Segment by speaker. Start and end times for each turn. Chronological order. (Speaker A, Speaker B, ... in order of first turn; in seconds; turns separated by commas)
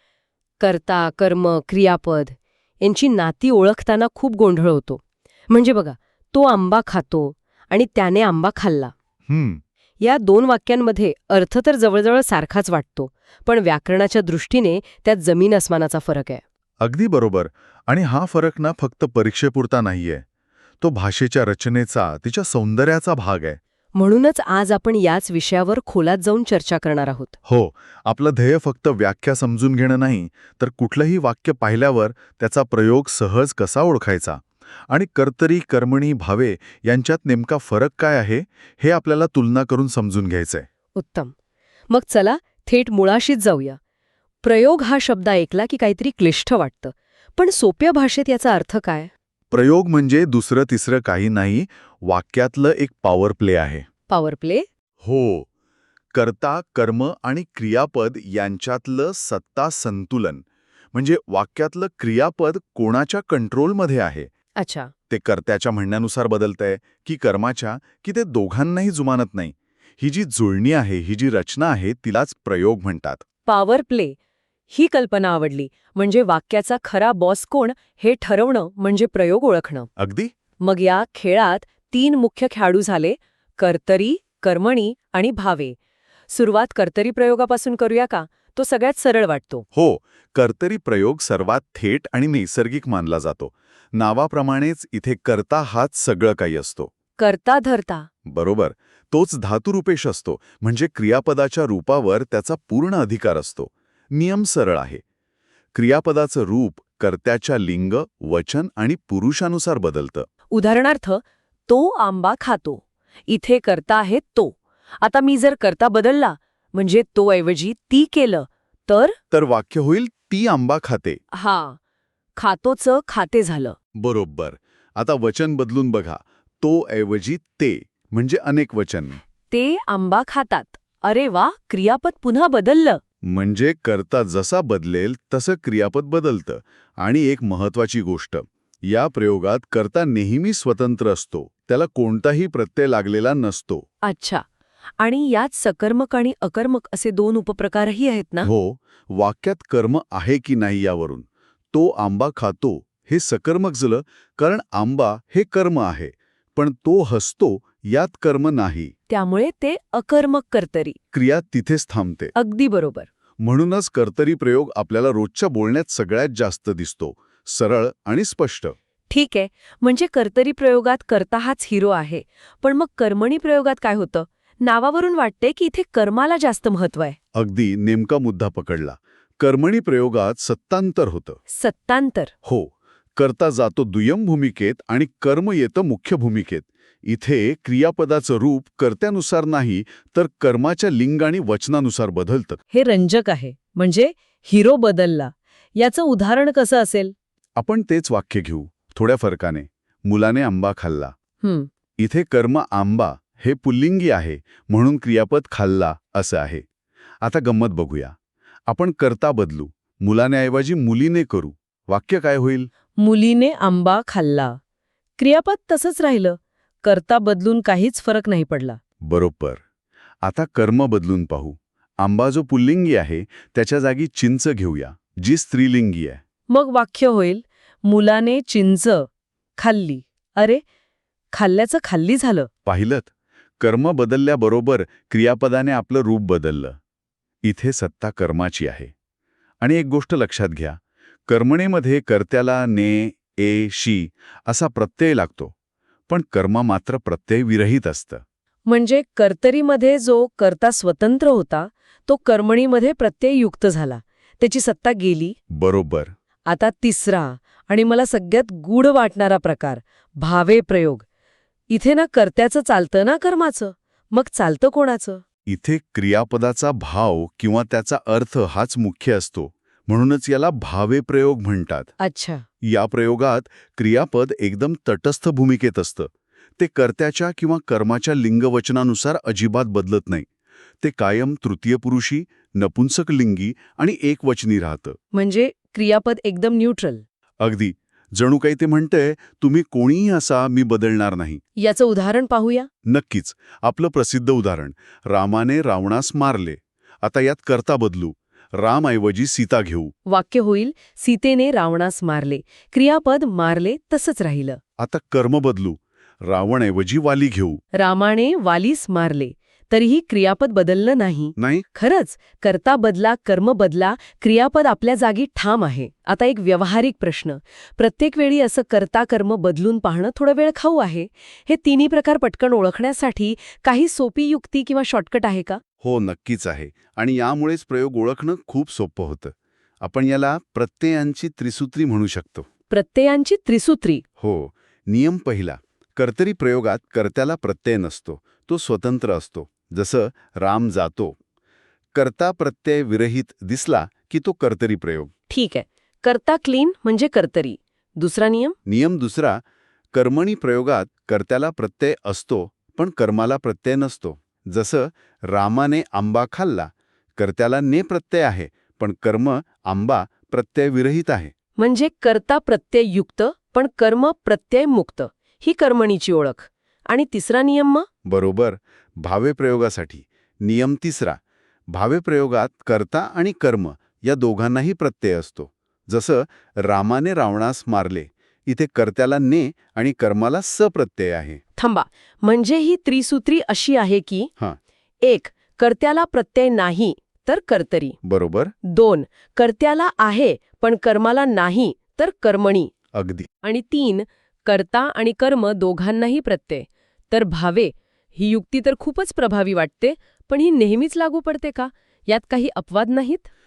Speaker A: 0.6-8.9, Speaker B: 9.3-9.6, Speaker A: 10.0-16.4, Speaker B: 16.8-20.2, Speaker B: 20.8-23.6, Speaker A: 23.9-27.3, Speaker B: 27.4-40.7, Speaker A: 41.0-41.3, Speaker A: 41.9-43.8, Speaker A: 44.4-49.1, Speaker B: 49.5-53.9, Speaker A: 54.1-54.7, Speaker B: 55.0-55.5, Speaker B: 56.1-64.3, Speaker A: 64.6-64.9, Speaker B: 65.1-73.2, Speaker A: 73.5-74.2, Speaker A: 74.7-79.9, Speaker B: 80.0-80.3, Speaker A: 80.6-85.8, Speaker A: 86.3-89.7, Speaker B: 89.7-96.9, Speaker A: 97.2-98.1, Speaker B: 98.3-105.0, Speaker B: 105.7-110.3, Speaker A: 110.5-119.2, Speaker B: 119.3-121.2, Speaker A: 121.3-121.8, Speaker A: 122.4-123.8, Speaker B: 124.0-129.2, Speaker A: 129.5-133.0, Speaker B: 133.2-143.9, Speaker A: 144.0-144.4, Speaker A: 145.0-148.5, Speaker B: 148.4-158.9, Speaker A: 159.1-161.0, Speaker B: 161.1-162.3, Speaker A: 162.3-163.1, Speaker B: 163.4-168.8, Speaker A: 169.1-177.2, Speaker B: 177.3-181.4, Speaker A: 181.5-182.3, Speaker B: 182.4-192.6, Speaker A: 192.7-197.1, Speaker B: 197.6-201.2, Speaker A: 201.4-201.7, Speaker B: 202.0-206.6, Speaker B: 207.2-208.2, Speaker B: 208.7-212.7, Speaker A: 213.0-214.6, Speaker A: 215.2-218.8, Speaker B: 219.0-219.6, Speaker B: 220.2-226.2, Speaker A: 226.5-229.1, Speaker A: 229.6-230.6, Speaker A: 231.3-232.5, Speaker B: 232.7-236.8, Speaker B: 237.4-238.9, Speaker B: 239.6-245.5, Speaker B: 246.1-248.2, Speaker A: 248.7-255.4, Speaker B: 255.5-256.1, Speaker A: 256.5-261.0, Speaker A: 261.7-265.2, Speaker B: 265.5-271.9, Speaker A: 272.0-272.4, Speaker B: 272.6-280.3, Speaker B: 280.8-285.0, Speaker A: 285.1-287.0, Speaker B: 287.4-291.4, Speaker A: 291.6-292.7, Speaker B: 292.9-299.9, Speaker A: 300.1-304.6, Speaker B: 304.8-307.6, Speaker A: 307.8-325.6, Speaker B: 311.4-311.6, Speaker B: 325.8-332.5, Speaker A: 332.7-334.0, Speaker B: 334.2-341.2, Speaker B: 341.9-345.1, Speaker A: 345.3-348.6, Speaker B: 348.7-349.4, Speaker B: 349.9-361.3, Speaker A: 361.6-367.9, Speaker B: 368.1-381.4, Speaker A: 381.6-384.3, Speaker A: 385.0-388.0, Speaker B: 388.0-388.5, Speaker A: 388.6-392.7, Speaker B: 392.9-393.3, Speaker A: 393.4-403.3